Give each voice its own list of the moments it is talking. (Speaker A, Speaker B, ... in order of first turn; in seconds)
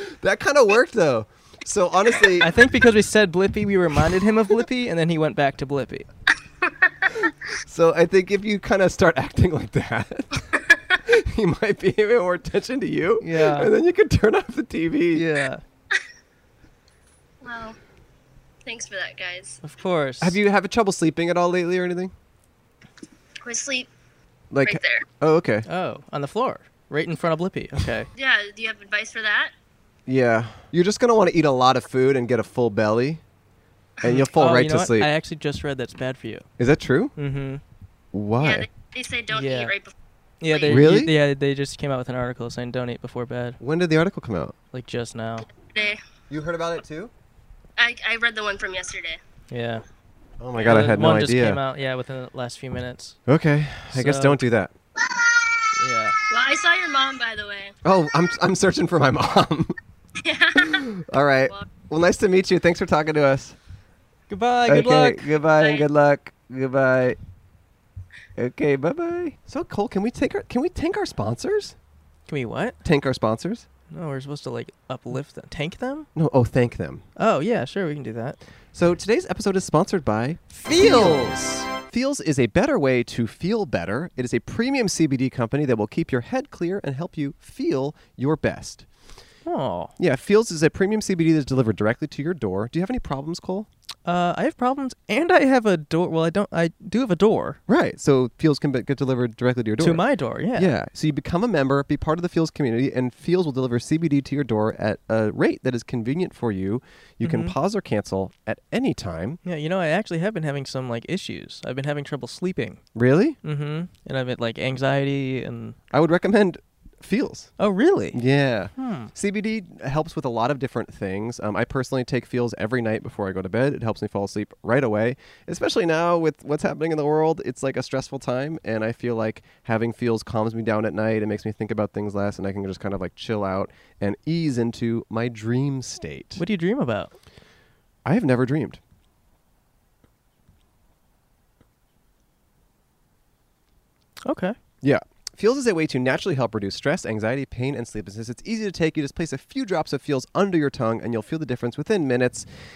Speaker A: 0.2-2.5, 7.7-10.4, 11.1-15.2, 20.2-22.1, 24.5-25.6, 30.1-33.2, 34.0-35.1, 36.6-37.1, 38.1-38.7, 40.7-41.1, 43.6-44.5, 46.3-47.1, 50.4-51.6, 53.3-54.7, 57.8-59.8, 60.7-63.5, 64.7-67.2, 68.3-71.8, 72.8-73.7, 76.1-77.0, 78.7-88.9, 90.0-93.7, 97.7-109.4, 112.9-113.4, 115.9-117.5, 118.1-136.4, 138.0-138.8, 144.8-152.5
Speaker B: 2.4-6.1, 13.2-13.7, 15.1-15.6, 19.6-20.4, 25.6-28.1, 34.0-36.5, 37.2-37.6, 39.3-39.7, 40.4-43.6, 44.7-45.5, 49.5-49.8, 50.6-53.2, 53.9-54.4, 55.8-56.1, 64.3-65.3, 72.3-72.8, 73.9-76.1, 77.2-78.4, 80.5-81.7, 89.4-89.9, 94.0-97.6, 99.8-100.7, 107.2-107.5, 109.4-112.8, 113.4-115.8, 117.6-118.2, 118.8-119.1, 136.3-137.1, 144.2-144.6
Speaker C: 17.4-17.8, 18.6-19.6, 23.4-23.9, 24.6-25.1, 28.1-29.5, 38.4-39.9, 40.5-40.9, 45.6-46.0, 47.8-49.2, 56.3-57.7, 60.2-60.9, 65.6-65.8